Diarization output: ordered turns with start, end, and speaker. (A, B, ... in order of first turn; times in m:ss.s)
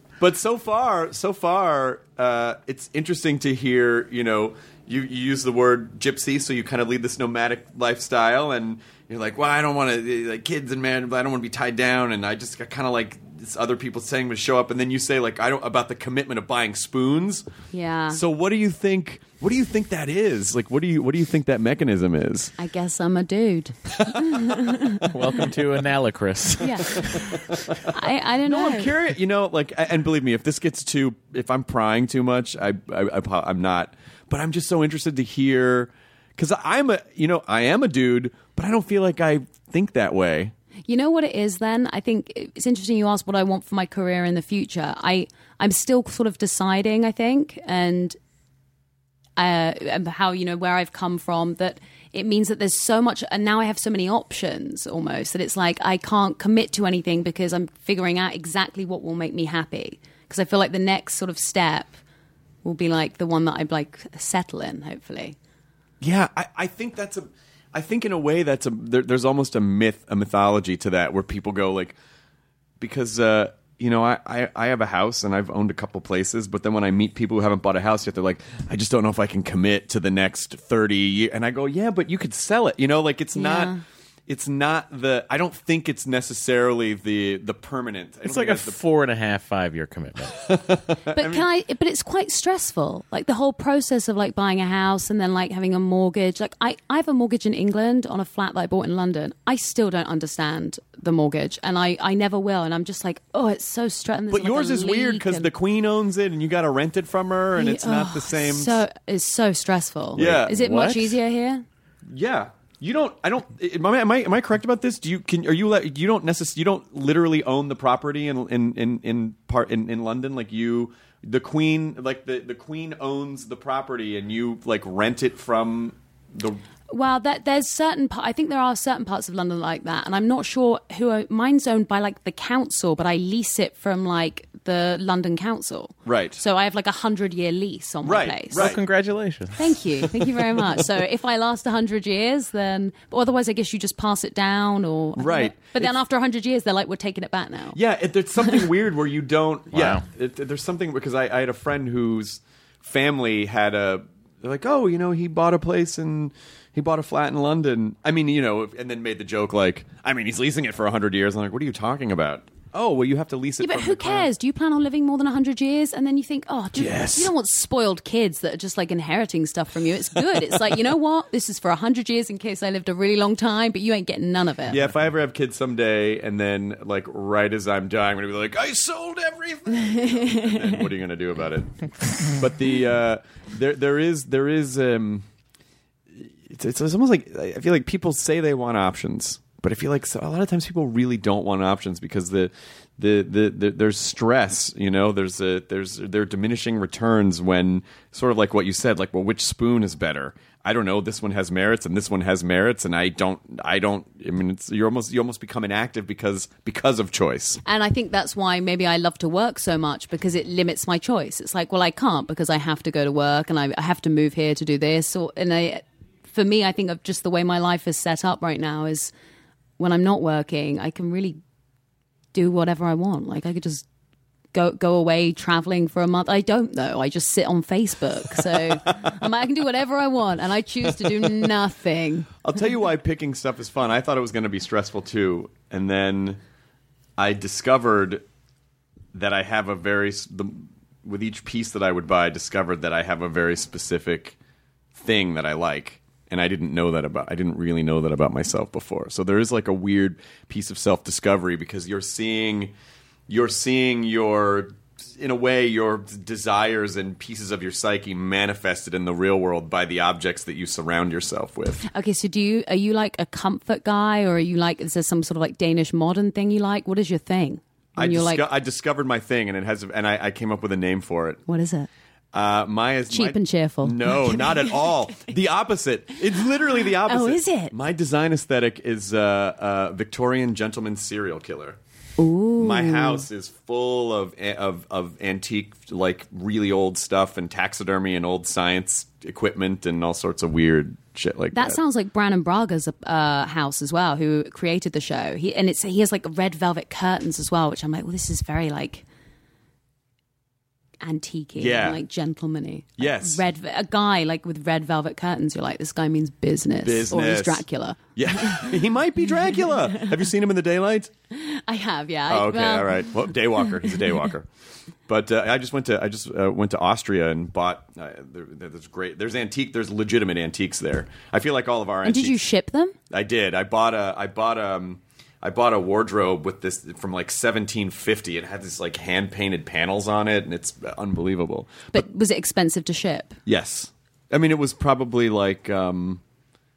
0:00.2-0:17.4 A
0:17.7-0:18.2 B
0:18.1-0:22.5 A
0:22.6-0:25.1 B
0:24.1-0:24.4 A
0:25.0-0:27.6 C
0:26.6-0:27.4 B
0:27.0-0:27.4 A
0:27.9-0:28.9 B
0:28.4-0:40.5 A
0:40.9-0:48.2 B
0:49.4-1:02.0 B
1:02.6-1:05.4 B
1:06.0-1:12.0 A
1:12.8-1:23.7 A
1:23.3-1:23.8 B
1:24.3-1:28.8 A
1:28.2-1:30.4 C
1:30.4-1:31.4 A
1:31.1-1:45.5 B
1:44.3-1:48.8 A
1:47.5-1:51.6 B
1:50.2-1:50.6 A
1:50.5-1:51.1 C
1:52.1-2:06.6 A
2:06.9-2:18.7 B
2:16.0-2:16.4 A
2:18.0-2:18.8 A
2:18.5-2:19.6 C
2:19.6-2:27.8 B
2:25.2-2:25.9 A
2:27.7-2:44.3 A
2:29.7-2:30.0 C
2:43.6-2:54.8 B
2:46.7-2:47.3 A
2:54.7-3:05.2 A
2:59.7-3:00.8 B
3:06.1-3:27.6 A
3:27.6-3:39.1 B
3:39.8-3:41.4 B
3:42.3-3:43.8 B
3:44.5-3:52.3 B
3:52.4-3:56.4 A
3:57.2-3:58.2 A
3:59.1-4:04.4 A
4:04.9-4:12.7 A
4:13.3-4:21.8 A
4:21.8-4:28.4 B
4:28.0-4:31.4 A
4:31.5-4:31.9 B
4:32.3-4:41.8 A
4:33.1-4:34.8 B
4:37.0-4:37.7 B
4:42.2-4:43.2 B
4:42.6-4:51.8 A
4:51.5-4:59.0 B
5:01.0-5:08.8 B
5:01.6-5:02.0 A
5:03.0-5:03.4 A
5:06.8-5:11.1 A
5:11.3-5:14.0 B
5:12.3-5:14.5 A
5:15.1-5:22.4 A
5:22.0-5:22.9 B
5:23.1-5:32.0 A
5:31.9-5:33.4 B
5:33.4-5:36.2 A